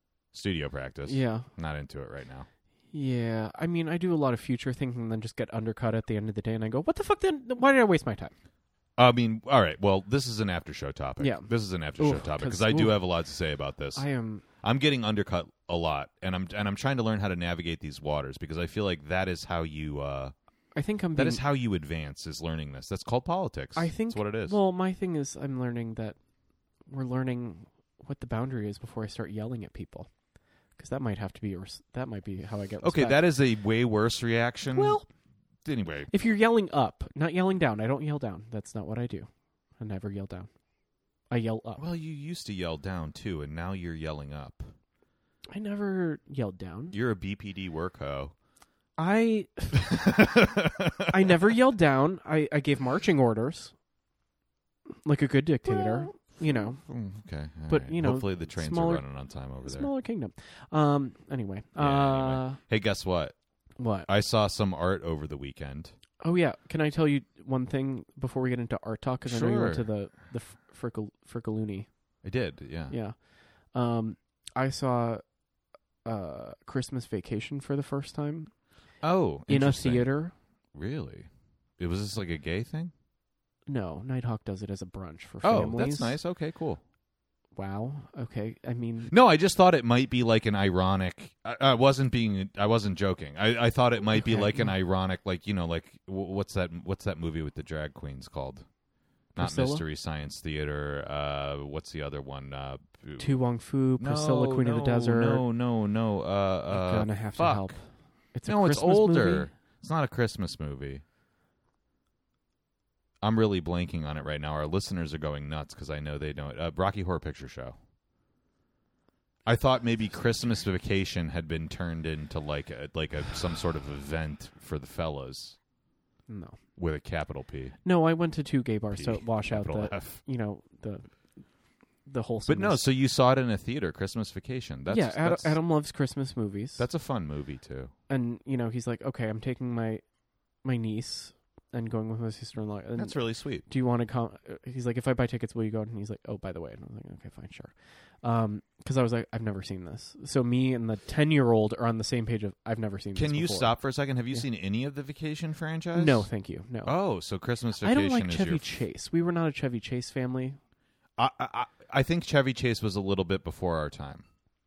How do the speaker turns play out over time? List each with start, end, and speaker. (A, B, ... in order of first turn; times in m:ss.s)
0:00.3-0:02.5 A
0:01.1-0:01.5 B
0:02.9-0:08.3 B
0:09.0-0:14.0 A
0:11.2-0:13.0 B
0:14.0-0:14.4 B
0:14.6-0:20.3 A
0:20.8-0:21.4 B
0:21.2-0:24.6 A
0:23.8-0:26.2 B
0:26.9-0:30.1 B
0:30.8-0:33.2 B
0:32.8-0:35.0 A
0:34.7-0:35.1 B
0:35.6-0:36.1 A
0:36.1-0:39.3 B
0:39.8-0:40.5 B
0:41.3-0:41.8 B
0:41.8-0:44.7 A
0:45.5-0:46.9 B
0:46.9-0:48.3 A
0:49.0-0:53.7 B
0:49.7-0:51.5 A
0:54.9-0:56.8 B
0:55.8-0:59.9 A
0:57.7-0:59.0 B
0:59.6-1:02.6 B
1:01.8-1:03.4 A
1:03.8-1:04.1 B
1:04.1-1:05.9 A
1:06.2-1:11.9 B
1:09.2-1:09.9 A
1:12.2-1:13.0 A
1:12.9-1:13.2 B
1:13.7-1:15.2 B
1:16.0-1:18.5 B
1:19.0-1:20.1 A
1:19.5-1:20.3 B
1:20.7-1:21.3 A
1:21.8-1:22.9 A
1:23.7-1:26.2 B
1:25.4-1:26.8 A
1:27.6-1:29.1 B
1:29.1-1:38.7 A
1:34.1-1:34.7 B
1:39.4-1:39.8 B
1:39.4-1:43.4 A
1:43.2-1:45.4 B
1:44.0-1:47.7 A
1:46.7-1:47.8 B
1:48.3-1:49.5 B
1:48.5-1:51.0 A
1:53.2-1:57.8 A
1:59.5-2:05.6 A
2:06.3-2:06.6 B
2:06.8-2:07.8 A
2:07.8-2:11.1 B
2:09.0-2:10.2 A
2:12.1-2:12.8 B
2:12.5-2:15.6 A
2:14.9-2:16.9 B
2:16.8-2:17.9 A
2:18.1-2:20.0 B
2:20.6-2:33.7 B
2:23.0-2:23.6 A
2:33.2-2:36.3 A
2:35.9-2:36.9 B
2:36.8-2:38.7 A
2:37.8-2:40.6 B
2:41.2-2:44.2 A